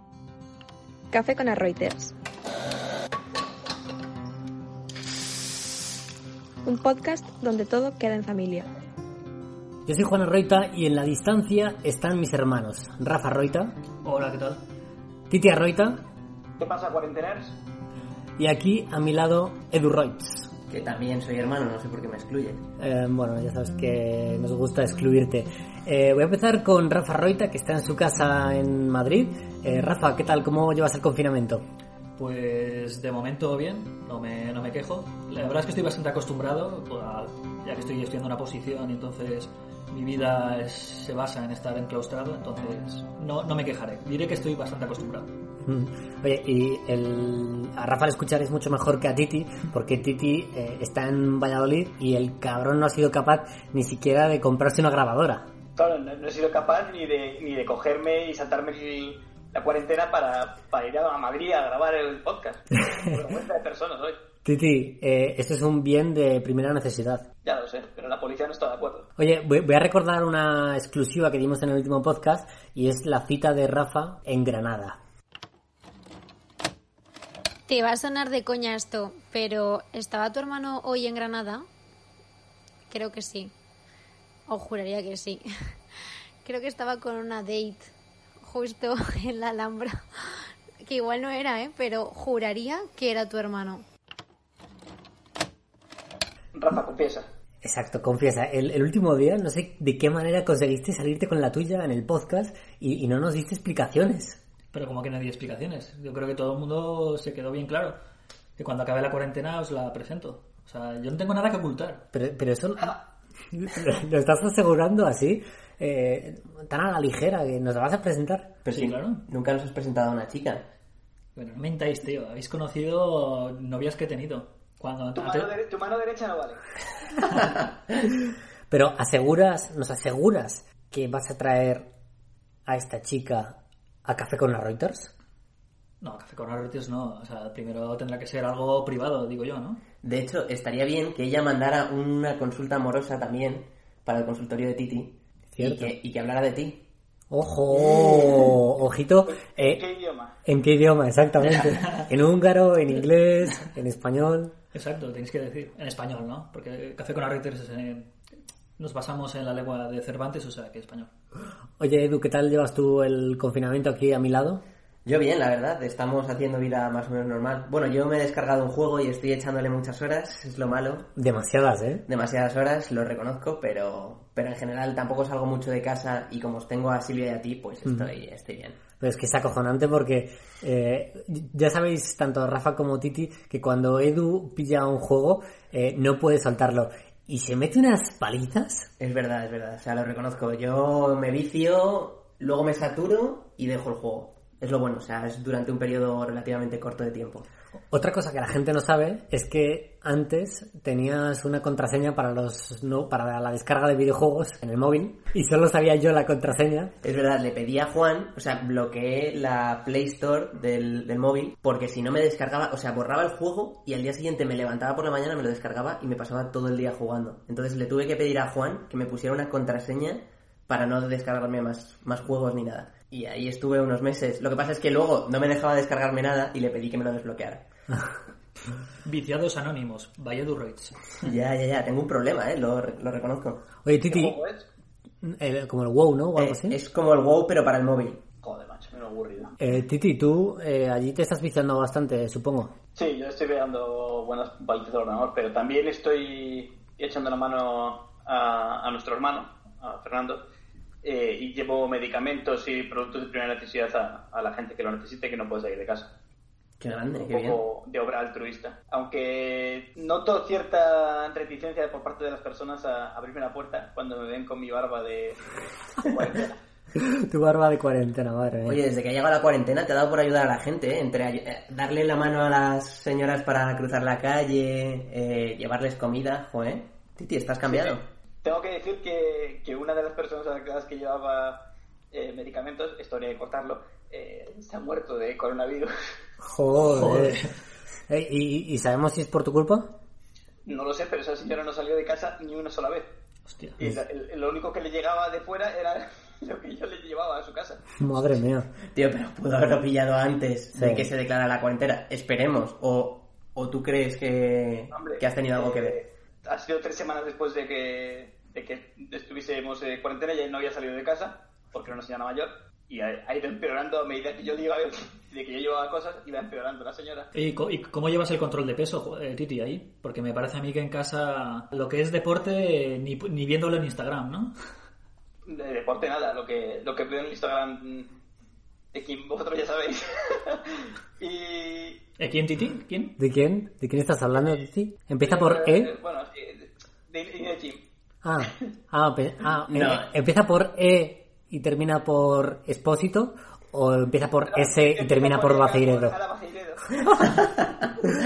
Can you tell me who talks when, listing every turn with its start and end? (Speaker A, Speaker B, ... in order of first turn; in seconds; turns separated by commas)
Speaker A: 1.1-2.1, Speaker A: 6.7-8.7, Speaker B: 9.9-13.7, Speaker C: 14.0-14.6, Speaker B: 15.3-16.0, Speaker D: 16.6-17.6, Speaker B: 18.4-20.5, Speaker E: 20.7-22.6, Speaker B: 22.8-31.6, Speaker C: 32.2-45.3, Speaker B: 45.7-55.5, Speaker D: 55.8-64.2, Speaker B: 64.4-67.2, Speaker D: 67.4-69.1, Speaker B: 69.2-75.0, Speaker F: 77.7-81.7, Speaker F: 82.9-83.5, Speaker F: 84.5-85.5, Speaker F: 86.4-93.8, Speaker D: 96.5-97.3, Speaker B: 97.6-104.4, Speaker C: 104.7-108.0, Speaker C: 108.6-112.1, Speaker B: 112.1-113.0, Speaker B: 113.5-118.6, Speaker E: 118.7-120.7, Speaker C: 118.7-119.2, Speaker C: 121.3-125.5, Speaker D: 125.2-126.6, Speaker B: 128.7-131.9, Speaker B: 132.7-135.1, Speaker C: 136.0-139.8, Speaker E: 140.0-146.8, Speaker B: 145.5-146.0, Speaker B: 147.3-149.8, Speaker D: 147.9-148.5, Speaker D: 149.3-150.3, Speaker B: 150.4-154.5, Speaker C: 151.5-152.1, Speaker C: 154.7-158.1, Speaker C: 158.8-161.1, Speaker B: 161.8-164.6, Speaker E: 165.1-171.1, Speaker B: 171.2-172.1, Speaker E: 172.1-178.8, Speaker B: 179.0-188.9, Speaker E: 189.0-197.5, Speaker B: 197.9-206.9, Speaker E: 207.0-227.7, Speaker C: 229.0-231.2, Speaker E: 231.2-233.7, Speaker B: 233.8-234.4, Speaker D: 234.1-234.7, Speaker B: 235.2-236.8, Speaker E: 236.4-238.2, Speaker D: 238.4-239.5, Speaker B: 239.6-242.7, Speaker D: 243.0-250.4, Speaker D: 251.0-256.1, Speaker E: 256.8-257.6, Speaker D: 257.3-265.4, Speaker D: 266.0-266.6, Speaker B: 267.0-268.8, Speaker E: 268.7-278.1, Speaker D: 277.7-281.6, Speaker D: 282.1-285.9, Speaker B: 286.4-287.4, Speaker C: 286.8-287.5, Speaker B: 288.1-289.9, Speaker D: 290.7-293.1, Speaker C: 293.5-293.8, Speaker D: 293.8-297.8, Speaker B: 298.0-298.7, Speaker E: 298.9-306.0, Speaker B: 300.8-301.1, Speaker D: 304.9-317.3, Speaker C: 317.3-324.5, Speaker D: 325.5-328.1, Speaker D: 328.9-332.0, Speaker C: 332.2-333.2, Speaker B: 333.2-335.9, Speaker D: 335.2-337.8, Speaker B: 338.2-346.1, Speaker E: 339.7-340.1, Speaker D: 344.5-346.9, Speaker E: 347.2-348.0